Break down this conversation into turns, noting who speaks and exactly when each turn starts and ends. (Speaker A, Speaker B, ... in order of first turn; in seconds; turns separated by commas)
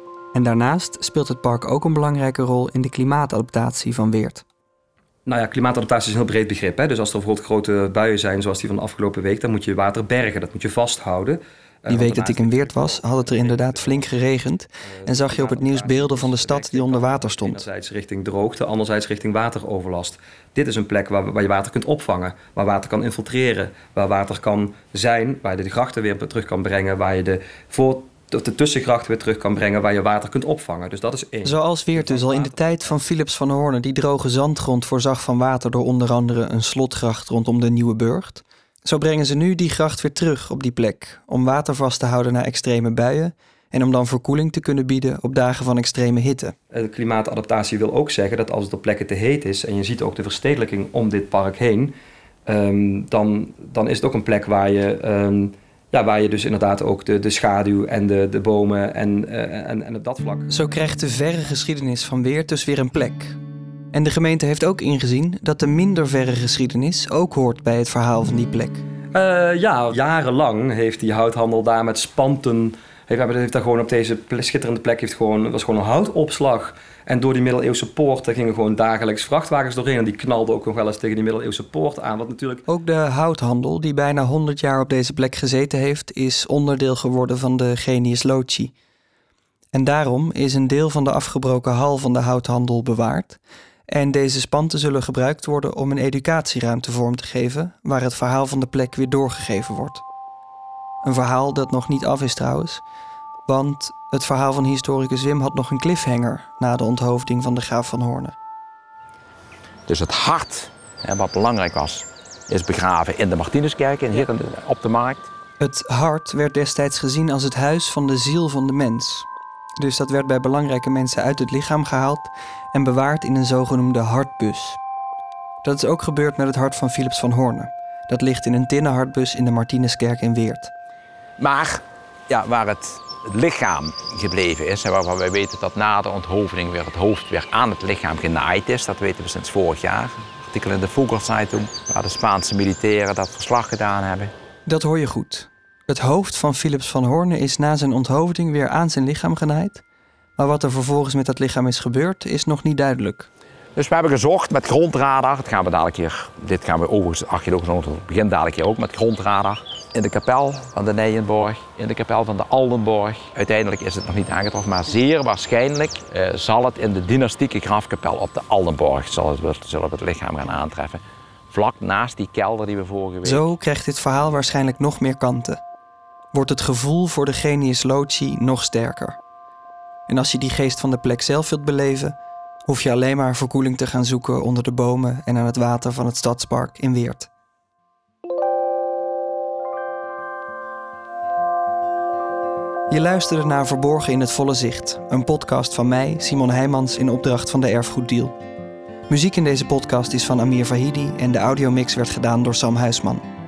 Speaker A: 0.3-4.5, Speaker B: 5.3-14.1, Speaker A: 11.9-17.6, Speaker B: 15.0-33.0, Speaker A: 31.4-46.5, Speaker B: 46.7-52.0, Speaker B: 52.5-60.5, Speaker A: 60.5-63.4, Speaker A: 63.9-68.8, Speaker B: 69.1-82.7, Speaker A: 82.7-88.7, Speaker A: 89.7-100.0, Speaker A: 101.0-102.8, Speaker A: 103.5-108.3, Speaker C: 109.9-115.3, Speaker A: 115.6-119.3, Speaker A: 119.8-124.8, Speaker A: 125.6-130.7, Speaker C: 131.4-144.3, Speaker A: 144.7-149.8, Speaker A: 150.4-153.3, Speaker C: 153.8-173.5, Speaker A: 173.2-175.6, Speaker A: 176.3-179.2, Speaker A: 180.1-182.2, Speaker A: 182.7-187.3, Speaker A: 192.9-198.3, Speaker A: 199.1-203.2